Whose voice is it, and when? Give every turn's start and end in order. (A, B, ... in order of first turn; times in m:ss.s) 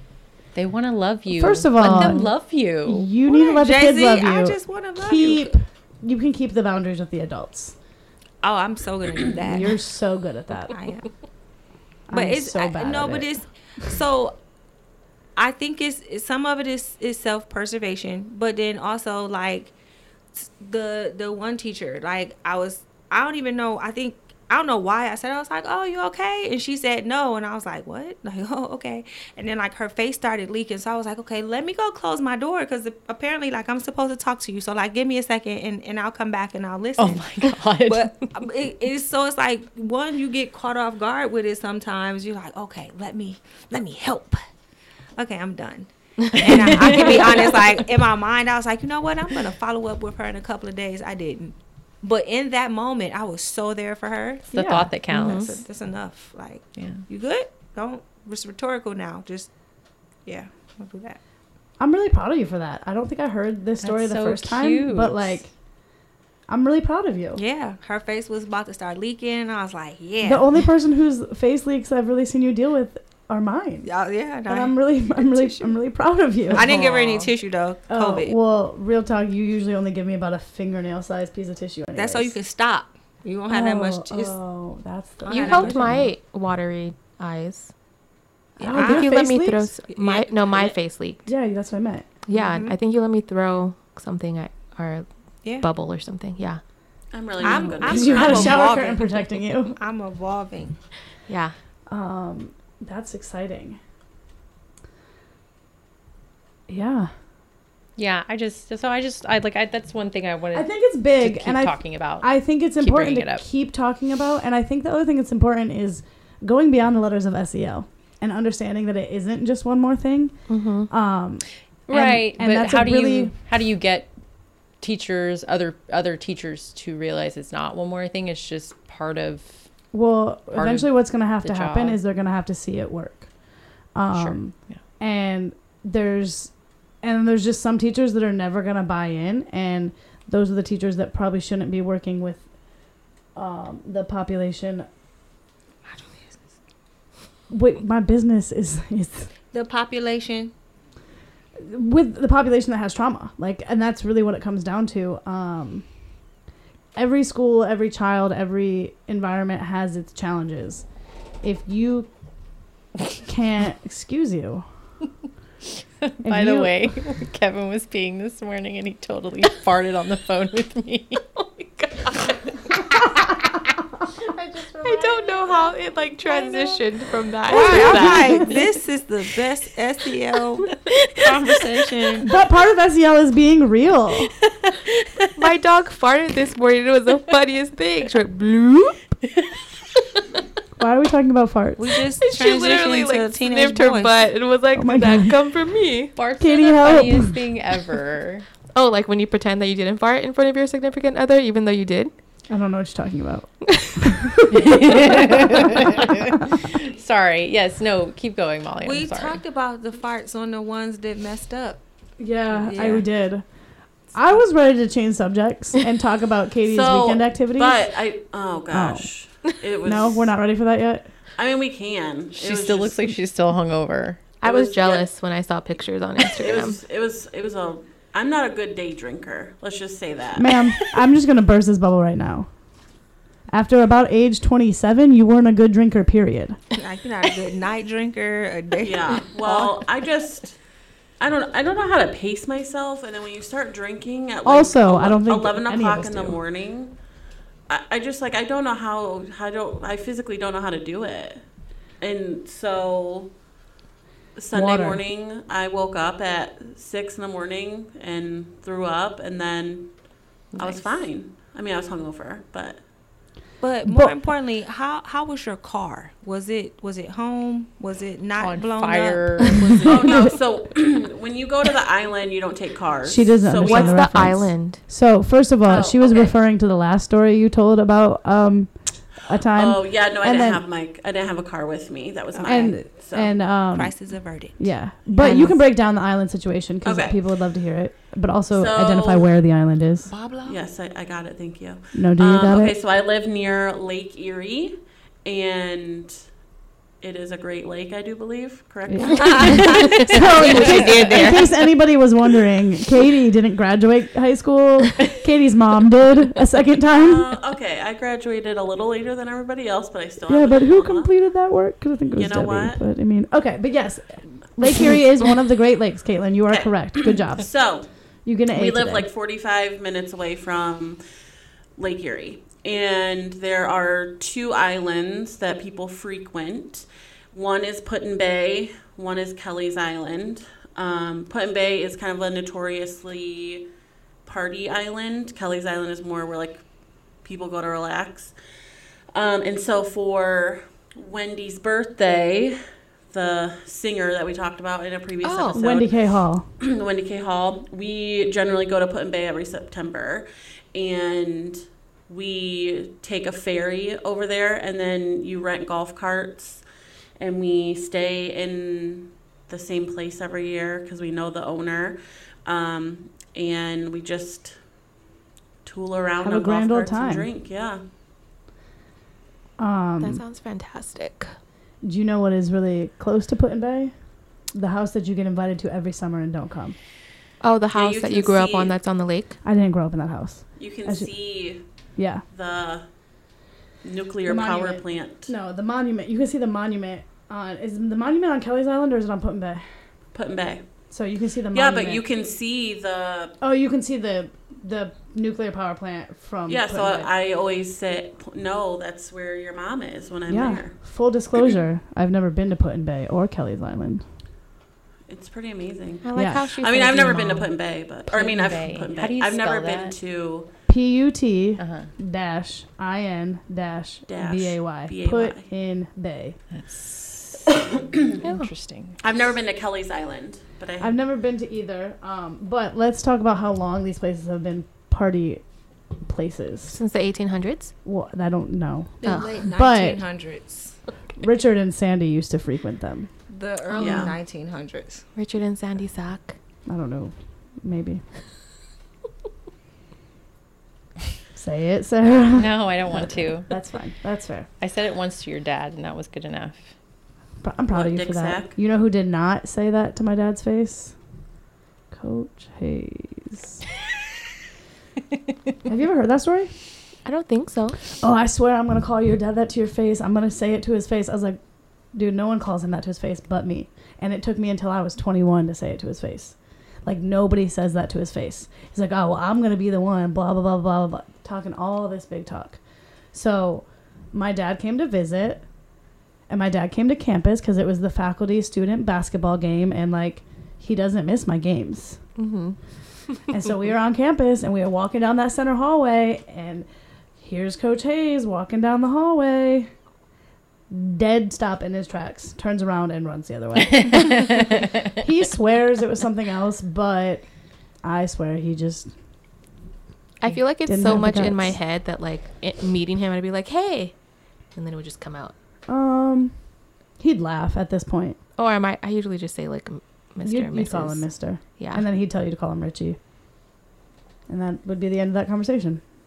0:00.6-0:03.1 A
0:01.3-0:07.8 B
0:01.8-0:02.2 C
0:03.2-0:05.5 D
0:08.4-0:09.8 D
0:09.5-0:10.7 B
0:10.7-0:11.1 D
0:12.1-0:13.4 B
0:12.1-0:14.4 D
0:15.4-0:19.7 D
0:20.3-0:44.4 D
0:37.0-0:38.3 A
0:45.2-0:54.5 D
0:46.4-0:47.1 C
0:46.4-0:47.5 A
0:54.5-0:55.5 A
0:54.5-0:54.9 B
0:55.1-0:55.6 C
0:55.1-0:59.5 D
0:56.8-0:57.0 A
1:00.2-1:01.2 D
1:01.8-1:05.5 B
1:03.8-1:05.4 A
1:06.5-1:07.4 B
1:07.4-1:10.6 D
1:10.2-1:13.9 B
1:13.8-1:15.7 D
1:14.5-1:17.2 B
1:16.5-1:18.4 D
1:17.9-1:22.4 B
1:22.0-1:24.3 D
1:23.5-1:26.1 B
1:25.3-1:27.7 C
1:25.3-1:26.1 D
1:28.6-1:29.2 D
1:28.6-1:29.7 B
1:28.6-1:31.3 C
1:29.9-1:30.8 D
1:31.3-1:32.1 B
1:32.3-1:35.1 C
1:32.3-1:32.8 D
1:35.6-1:36.6 C
1:37.1-1:38.8 E
1:37.4-1:40.8 D
1:37.4-1:39.8 B
1:41.3-1:41.5 C
1:41.9-1:43.8 B
1:46.7-1:47.1 B
1:48.0-1:52.3 A
1:50.5-2:03.4 B
1:52.8-1:53.4 A
2:00.5-2:00.9 C
2:01.9-2:04.1 A
2:04.8-2:09.6 A
2:09.9-2:13.3 B
2:10.5-2:10.9 A
2:11.4-2:12.0 A
2:13.9-2:22.5 B
2:14.1-2:14.8 A
2:23.4-2:24.9 B
2:25.8-2:26.5 D
2:27.5-2:29.3 B
2:29.5-2:30.5 D
2:31.6-2:35.9 B
2:37.0-2:40.8 B
2:41.4-2:42.1 B
2:43.2-2:44.7 B
2:46.0-2:52.3 A
2:46.2-2:46.9 B
2:54.6-2:58.6 C
2:56.3-2:56.8 D
2:57.5-3:02.3 D
3:00.6-3:01.2 C
3:02.2-3:04.3 B
3:04.7-3:05.4 A
3:05.4-3:09.0 C
3:10.8-3:11.8 B
3:11.8-3:14.2 D
3:12.2-3:16.1 C
3:14.7-3:15.4 B
3:16.2-3:18.5 A
3:16.4-3:17.4 B
3:18.7-3:22.1 C
3:22.5-3:25.5 B
3:24.5-3:29.4 A
3:28.8-3:31.8 D
3:32.2-3:33.4 B
3:32.6-3:33.0 D
3:34.1-3:37.9 B
3:36.7-3:40.4 E
3:38.7-3:39.1 B
3:39.8-3:41.1 B
3:41.4-3:43.1 E
3:42.3-3:44.3 A
3:44.4-3:46.8 C
3:44.4-3:45.1 E
3:46.2-3:50.5 E
3:50.4-3:52.5 B
3:53.5-3:56.6 B
3:56.7-3:59.8 D
3:58.8-4:00.6 E
4:01.2-4:07.0 E
4:04.4-4:06.4 B
4:07.7-4:11.4 E
4:12.0-4:13.3 E
4:14.4-4:20.0 E
4:14.5-4:15.0 B
4:20.5-4:22.8 E
4:23.6-4:30.2 D
4:23.8-4:24.2 B
4:28.4-4:30.0 A
4:29.8-4:34.3 E
4:29.8-4:30.4 B
4:33.1-4:40.6 B
4:33.6-4:34.8 C
4:35.7-4:36.3 E
4:39.6-4:43.3 E
4:42.4-4:44.0 B
4:43.7-4:44.7 D
4:44.5-4:50.1 B
4:45.2-4:45.6 C
4:46.8-4:47.2 E
4:48.5-4:49.3 E
4:50.1-4:50.6 D
4:50.4-4:56.2 E
4:51.9-4:52.8 B
4:57.0-4:59.9 E
4:58.9-5:07.4 B
4:59.1-5:01.5 D
5:00.5-5:00.8 E
5:06.9-5:11.1 E
5:10.3-5:17.5 B
5:12.2-5:12.8 E
5:16.5-5:17.9 E
5:18.2-5:19.1 B
5:18.5-5:21.0 E
5:21.8-5:33.7 E
5:34.2-5:36.6 E
5:37.2-5:38.3 E
5:39.1-5:42.6 E
5:43.1-5:46.0 E
5:45.2-5:45.6 C
5:45.6-5:46.5 B
5:46.6-5:56.6 E
5:57.2-6:04.6 E
6:05.6-6:07.8 E
6:06.2-6:07.3 B
6:09.6-6:10.2 B
6:10.0-6:11.3 C
6:11.8-6:13.9 B
6:14.5-6:16.8 B
6:17.4-6:19.4 C
6:17.7-6:18.8 E
6:19.4-6:21.1 B
6:20.6-6:21.6 E
6:22.0-6:22.2 B
6:22.3-6:22.9 E
6:23.8-6:25.3 E
6:24.3-6:29.6 B
6:30.1-6:30.6 E
6:30.9-6:32.0 B
6:31.5-6:33.4 E
6:33.4-6:37.1 B
6:36.5-6:40.8 E
6:40.3-6:44.0 B
6:45.1-6:50.5 E
6:46.0-6:47.5 C
6:46.2-6:46.4 B
6:48.1-6:50.0 A
6:50.7-6:56.4 B
6:51.6-6:51.9 A
6:54.1-6:55.5 E
6:56.5-6:57.4 A
6:58.2-6:59.0 A
6:58.2-6:58.5 C
6:59.0-7:01.0 E
7:00.8-7:05.4 B
7:06.0-7:06.8 B
7:06.7-7:07.7 C
7:07.8-7:10.0 B
7:09.0-7:10.8 D
7:09.0-7:09.4 C
7:11.2-7:13.1 B
7:13.3-7:15.1 D
7:13.8-7:14.1 C
7:13.8-7:14.2 E
7:15.2-7:16.4 C
7:16.7-7:18.0 B
7:21.4-7:24.5 B
7:22.4-7:23.5 A
7:24.6-7:26.7 A
7:27.4-7:31.0 B
7:27.7-7:28.5 E
7:31.9-7:33.6 B
7:35.6-7:36.5 B
7:37.0-7:37.8 C
7:38.0-7:41.4 B
7:41.9-7:52.6 B
7:53.1-7:55.5 B
7:56.3-8:02.0 B
8:02.2-8:02.6 C
8:03.3-8:06.7 B
8:07.2-8:09.7 B
8:10.7-8:17.3 B
8:17.8-8:18.9 B
8:20.2-8:23.9 C
8:20.6-8:21.6 B
8:24.5-8:25.3 C
8:25.7-8:26.4 B
8:27.0-8:28.2 B
8:28.4-8:31.1 C
8:30.2-8:33.0 B
8:31.6-8:31.8 C
8:34.3-8:35.8 B